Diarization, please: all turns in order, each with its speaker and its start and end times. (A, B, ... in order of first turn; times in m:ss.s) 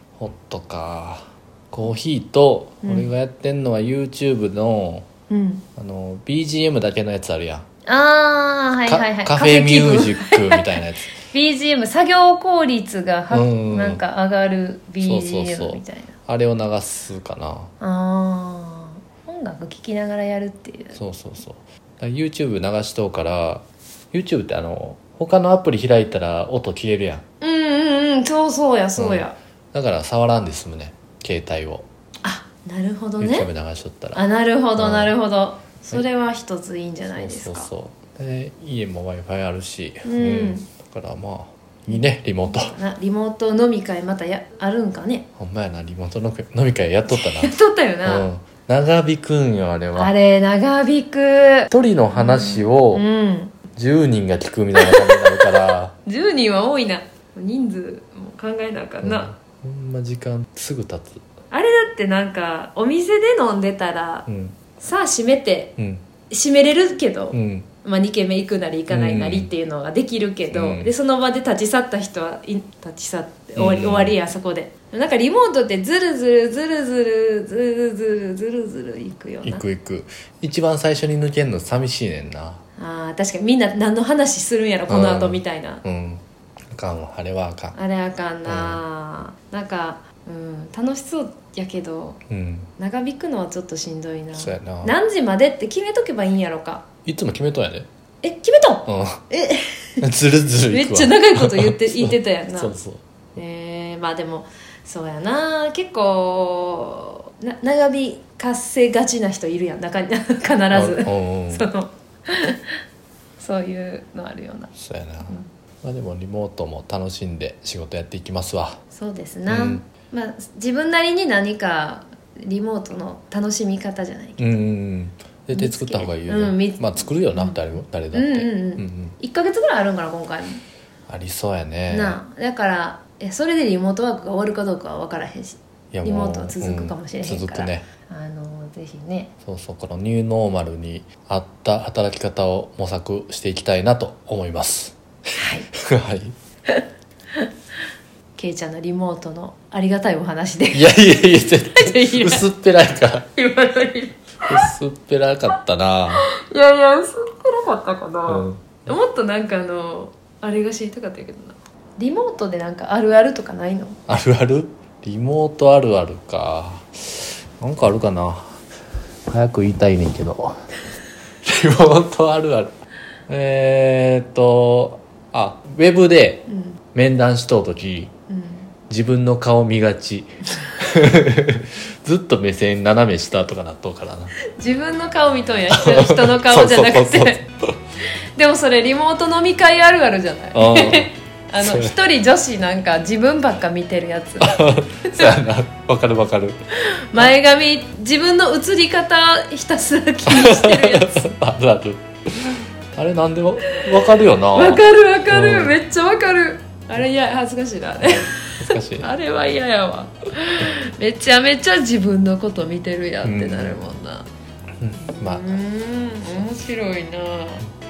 0:00.2-0:05.1 A
0:02.8-0:03.1 B
0:05.3-0:05.6 B
0:05.8-0:07.6 A
0:07.9-0:16.1 B
0:08.9-0:11.1 A
0:13.3-0:14.0 A
0:15.0-0:17.7 A
0:17.8-0:21.0 B
0:21.0-0:27.2 A
0:27.4-0:29.4 B
0:29.0-0:31.9 A
0:32.2-0:33.5 B
0:33.2-0:34.2 A
0:34.2-0:37.7 B
0:34.8-0:35.2 A
0:37.1-0:42.8 A
0:40.0-0:40.7 B
0:41.9-0:45.3 B
0:45.4-0:47.5 A
0:47.1-0:48.3 B
0:48.0-0:50.1 A
0:50.0-0:53.6 B
0:51.7-0:53.0 A
0:53.8-0:56.0 A
0:54.8-0:59.3 B
0:59.0-1:01.2 A
1:01.5-1:04.3 B
1:04.3-1:04.6 A
1:04.8-1:05.8 B
1:05.8-1:06.0 A
1:06.3-1:19.6 B
1:07.3-1:07.7 A
1:08.9-1:09.5 A
1:10.5-1:10.9 A
1:13.6-1:14.2 A
1:19.4-1:22.6 A
1:22.8-1:25.8 B
1:24.9-1:27.8 A
1:27.8-1:32.2 B
1:28.4-1:28.8 A
1:32.3-1:32.7 A
1:32.8-1:36.8 B
1:34.4-1:35.0 A
1:37.1-1:37.9 A
1:38.2-1:40.0 B
1:38.9-1:39.2 A
1:40.0-1:43.0 A
1:40.7-1:42.8 B
1:43.4-1:52.8 B
1:50.7-1:51.7 A
1:53.4-1:54.7 B
1:54.8-1:58.8 A
1:58.9-2:04.4 B
1:59.5-1:59.8 A
2:04.4-2:09.2 A
2:05.5-2:10.6 B
2:11.1-2:12.2 A
2:11.9-2:19.3 B
2:15.9-2:17.9 A
2:19.5-2:25.0 A
2:25.4-2:25.7 B
2:25.7-2:26.4 A
2:28.4-2:32.5 B
2:30.7-2:33.3 A
2:33.4-2:34.6 B
2:34.5-2:36.2 A
2:36.1-2:44.0 B
2:38.3-2:38.8 A
2:44.1-2:48.6 A
2:49.3-2:50.7 A
2:51.4-2:58.1 A
2:56.5-2:56.8 B
2:58.3-2:58.7 B
2:58.9-3:04.3 A
3:04.4-3:07.4 B
3:05.7-3:07.7 A
3:08.4-3:15.4 B
3:10.5-3:12.0 A
3:14.4-3:16.6 A
3:16.9-3:21.2 B
3:20.3-3:25.8 A
3:24.5-3:34.3 B
3:28.0-3:29.1 A
3:33.2-3:33.8 A
3:34.8-3:35.6 A
3:35.0-3:37.7 B